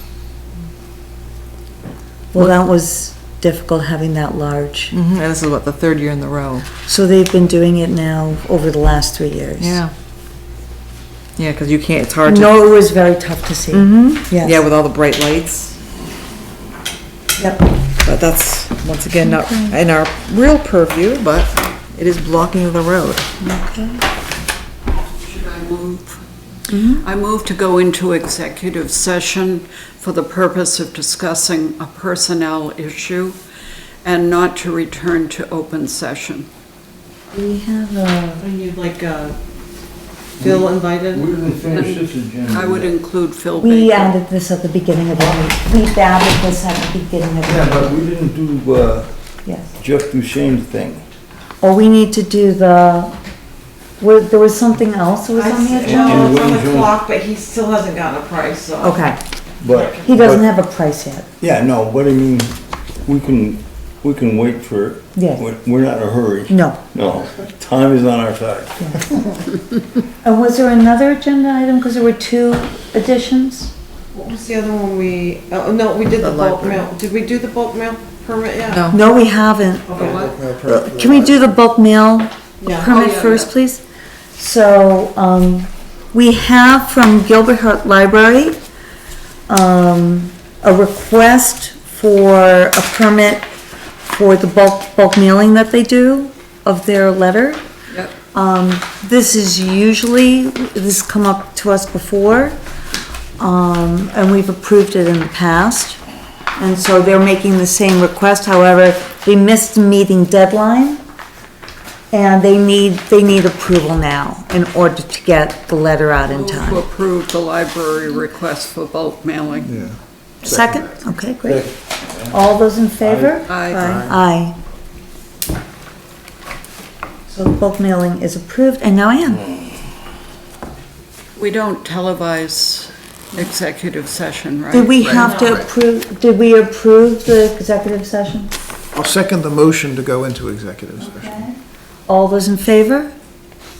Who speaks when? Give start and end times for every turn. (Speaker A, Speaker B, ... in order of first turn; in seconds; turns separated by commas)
Speaker A: 2.3-4.9, Speaker B: 4.9-6.7, Speaker A: 6.9-9.8, Speaker B: 9.6-9.9, Speaker B: 11.4-12.5, Speaker A: 12.2-14.6, Speaker B: 13.7-15.8, Speaker A: 17.4-17.6, Speaker B: 18.0-23.3, Speaker A: 19.2-19.8, Speaker A: 23.4-24.0, Speaker C: 25.2-26.2, Speaker A: 26.7-27.0, Speaker C: 27.0-33.4, Speaker C: 34.0-36.5, Speaker A: 37.3-38.4, Speaker D: 38.4-39.4, Speaker D: 40.4-41.6, Speaker E: 40.4-43.0, Speaker C: 41.7-44.2, Speaker A: 43.6-47.9, Speaker E: 47.4-49.1, Speaker A: 49.5-49.7, Speaker E: 49.8-51.0, Speaker A: 51.6-53.1, Speaker A: 54.0-56.3, Speaker D: 55.3-59.1, Speaker E: 55.8-57.0, Speaker A: 58.8-59.2, Speaker E: 59.6-60.5, Speaker A: 60.0-61.3, Speaker E: 61.4-68.8, Speaker A: 65.2-65.4, Speaker A: 66.5-66.8, Speaker A: 68.8-69.0, Speaker A: 70.2-73.7, Speaker D: 74.1-78.9, Speaker B: 76.2-76.9, Speaker B: 78.7-79.0, Speaker A: 78.9-83.8, Speaker F: 79.9-81.5, Speaker D: 80.0-80.3, Speaker D: 82.6-83.0, Speaker C: 82.8-83.5, Speaker A: 84.4-88.6, Speaker A: 89.5-93.5, Speaker A: 94.1-97.6, Speaker A: 98.3-102.6, Speaker A: 103.4-106.0, Speaker A: 106.6-111.0, Speaker A: 112.1-116.8, Speaker C: 116.2-119.9, Speaker F: 119.7-120.8, Speaker A: 120.4-121.7, Speaker E: 121.4-122.4, Speaker A: 122.3-124.6, Speaker E: 123.0-124.1, Speaker C: 123.5-124.0, Speaker B: 123.7-124.1, Speaker A: 127.3-129.6, Speaker C: 131.4-135.2, Speaker A: 134.7-138.5, Speaker D: 135.1-135.6, Speaker F: 138.9-141.4, Speaker A: 141.0-141.5, Speaker A: 142.1-143.1